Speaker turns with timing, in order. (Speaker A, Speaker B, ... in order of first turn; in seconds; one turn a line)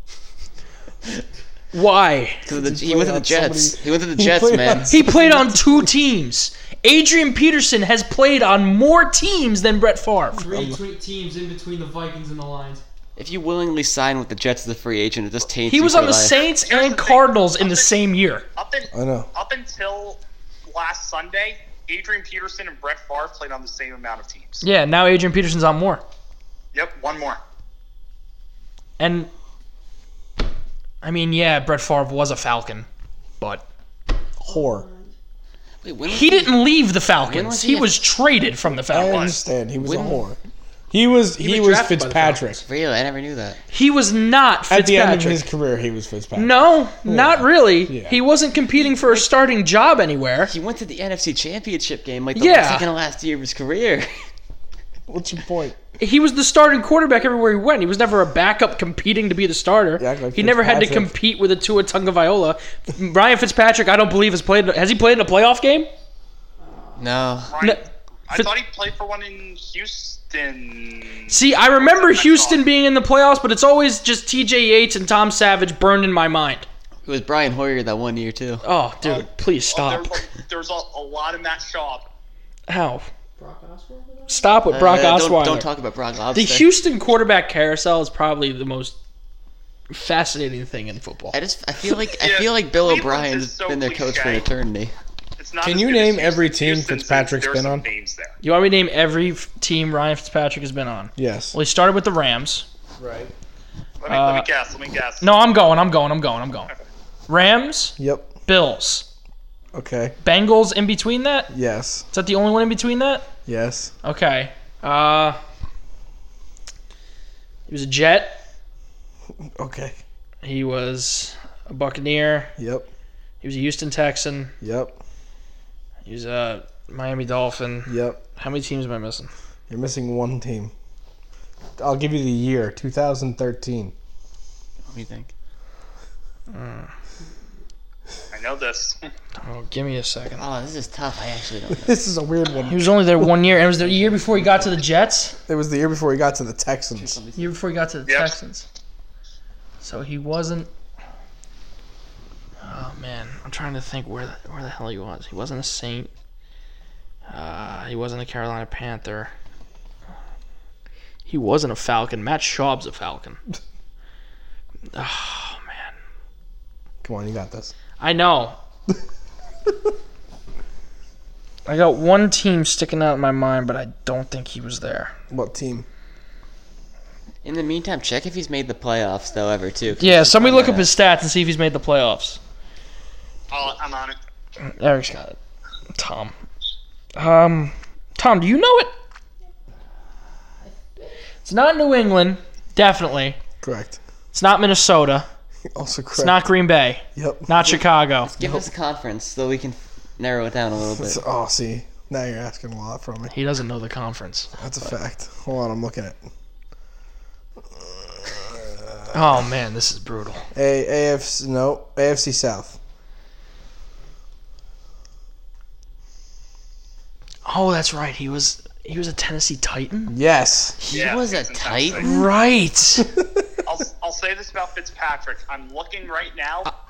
Speaker A: 1.7-2.4
Speaker B: 2.4-5.0
Speaker C: 2.5-5.8
Speaker A: 4.9-10.4
Speaker D: 10.3-12.8
Speaker C: 10.5-10.8
Speaker B: 13.2-16.4
Speaker A: 15.7-18.4
Speaker E: 16.2-18.0
Speaker E: 18.6-24.6
Speaker C: 18.9-19.3
Speaker A: 24.6-26.0
Speaker E: 26.7-27.4
Speaker A: 29.0-29.3
Speaker A: 31.0-32.9
Speaker A: 33.4-33.6
Speaker C: 34.4-34.9
Speaker B: 35.8-36.6
Speaker A: 36.1-39.3
Speaker B: 37.2-38.1
Speaker C: 38.9-40.4
Speaker E: 39.0-39.4
Speaker B: 39.8-40.2
Speaker C: 40.9-42.6
Speaker A: 41.4-42.4
Speaker B: 42.6-43.6
Speaker A: 43.7-45.4
Speaker C: 44.7-48.2
Speaker A: 46.3-50.5
Speaker B: 48.8-49.2
Speaker B: 50.5-54.1
Speaker A: 52.3-52.9
Speaker C: 55.1-55.8
Speaker A: 56.0-65.9
Speaker C: 60.0-61.1
Speaker B: 67.0-67.5
Speaker E: 67.5-72.6
Speaker A: 71.3-76.7
Speaker B: 77.0-78.6
Speaker A: 78.6-80.2
Speaker E: 79.0-82.0
Speaker A: 82.7-83.1
Speaker A: 84.3-85.7
Speaker B: 84.7-86.7
Speaker A: 86.3-88.9
Speaker A: 89.9-91.4
Speaker B: 91.3-94.9
Speaker E: 92.2-94.5
Speaker E: 95.4-98.3
Speaker C: 95.6-97.9
Speaker A: 98.4-102.7
Speaker C: 101.2-101.5
Speaker C: 103.0-103.3
Speaker E: 104.0-105.3
Speaker A: 104.1-104.5
Speaker A: 105.2-106.7
Speaker A: 107.3-109.0
Speaker C: 108.0-108.3
Speaker C: 109.7-110.2
Speaker A: 110.2-111.5
Speaker C: 111.5-112.0
Speaker A: 112.1-113.3
Speaker C: 113.5-113.9
Speaker A: 114.0-115.4
Speaker A: 117.7-118.4
Speaker C: 119.5-119.9
Speaker A: 120.4-122.5
Speaker C: 122.6-122.9
Speaker A: 123.4-124.5
Speaker C: 124.6-125.0
Speaker A: 126.0-129.3
Speaker C: 127.8-128.2
Speaker C: 129.7-130.7
Speaker C: 131.8-133.9
Speaker B: 134.9-135.3
Speaker A: 136.5-136.9
Speaker E: 138.3-139.0
Speaker A: 139.4-140.4
Speaker B: 140.4-141.9
Speaker C: 141.7-143.3
Speaker A: 142.7-145.4
Speaker B: 143.8-144.7
Speaker C: 145.5-147.2
Speaker B: 146.9-147.5
Speaker A: 147.3-148.7
Speaker E: 148.1-148.3
Speaker A: 149.8-150.7
Speaker A: 152.6-156.1
Speaker A: 157.3-159.3
Speaker A: 161.3-163.4
Speaker A: 164.9-165.9
Speaker C: 167.0-167.7
Speaker A: 168.0-168.6
Speaker A: 171.7-175.1
Speaker C: 175.3-175.9
Speaker B: 177.4-180.9
Speaker A: 180.0-182.4
Speaker E: 183.5-184.2
Speaker A: 184.6-185.4
Speaker A: 185.9-186.3
Speaker A: 187.2-188.9
Speaker A: 191.4-193.4
Speaker C: 193.6-194.0
Speaker A: 194.3-195.3
Speaker C: 195.7-196.4
Speaker A: 196.1-198.3
Speaker C: 197.1-197.6
Speaker B: 197.6-201.2
Speaker C: 198.4-198.7
Speaker C: 200.9-203.3
Speaker A: 203.3-204.9
Speaker C: 204.6-206.2
Speaker C: 207.7-209.4
Speaker A: 209.1-210.5
Speaker C: 210.5-212.8
Speaker A: 217.4-220.1
Speaker C: 220.1-220.8
Speaker B: 220.8-222.1
Speaker E: 220.9-222.1
Speaker A: 222.0-223.1
Speaker C: 223.0-223.4
Speaker E: 223.6-226.7